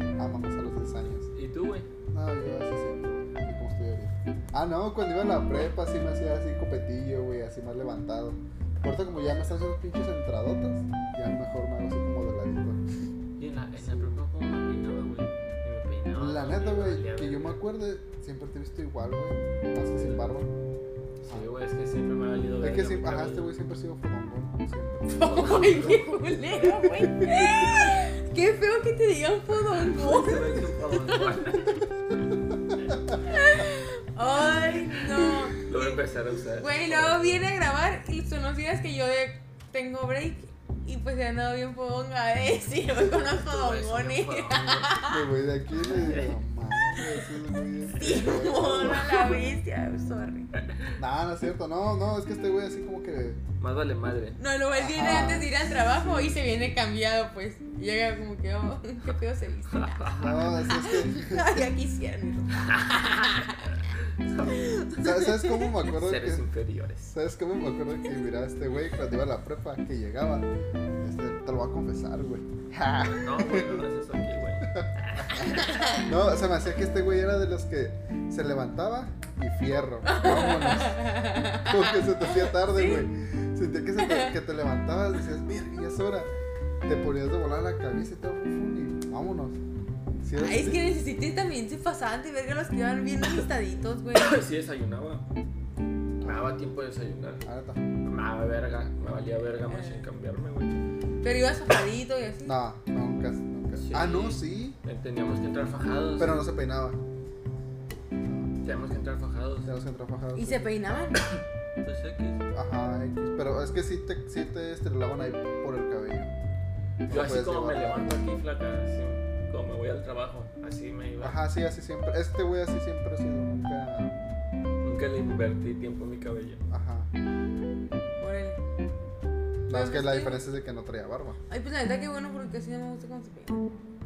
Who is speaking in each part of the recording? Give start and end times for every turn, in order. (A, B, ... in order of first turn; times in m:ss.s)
0:00.2-0:01.3 A
0:01.3-0:01.9 B
0:02.1-0:12.8 A
0:09.1-0:09.6 B
0:13.4-0:17.6 B
0:13.8-0:14.2 A
0:16.2-0:20.5 A
0:20.0-0:20.2 B
0:21.2-0:23.5 B
0:22.6-0:25.5 A
0:25.1-0:31.3 C
0:25.2-0:26.2 B
0:27.2-0:27.6 A
0:29.8-0:31.8 B
0:33.2-0:36.0 C
0:35.6-0:37.5 B
0:36.6-0:45.2 C
0:43.2-0:45.0 B
0:45.1-0:49.1 A
0:45.9-0:46.4 B
0:47.9-0:50.5 C
0:48.2-0:49.2 B
0:51.0-0:53.4 A
0:53.6-0:54.4 B
0:54.4-1:05.7 C
0:54.8-0:56.4 A
0:59.7-1:00.4 B
1:00.1-1:01.5 A
1:02.6-1:04.7 B
1:05.0-1:06.5 A
1:05.8-1:07.1 B
1:07.1-1:10.5 A
1:11.0-1:13.8 A
1:13.1-1:16.0 B
1:14.6-1:21.0 A
1:15.4-1:16.0 C
1:20.0-1:23.1 C
1:21.6-1:26.3 A
1:24.0-1:24.3 C
1:26.8-1:29.6 A
1:30.2-1:30.8 A
1:30.4-1:34.4 C
1:34.1-1:35.2 B
1:36.2-1:36.6 A
1:36.2-1:37.4 B
1:37.4-1:37.8 A
1:38.0-1:40.8 B
1:39.7-1:40.0 C
1:41.2-1:42.6 C
1:42.4-1:44.8 A
1:43.8-1:46.5 B
1:46.2-1:47.0 A
1:48.2-1:48.5 A
1:48.6-1:49.7 B
1:49.6-1:50.7 A
1:50.4-1:51.2 C
1:51.2-1:52.4 B
1:52.5-1:56.4 A
1:57.1-1:58.2 A
1:57.1-2:01.4 B
2:01.2-2:04.2 A
2:04.8-2:06.6 B
2:06.7-2:07.1 A
2:08.2-2:08.6 C
2:09.7-2:11.4 A
2:09.7-2:10.4 C
2:11.5-2:13.6 C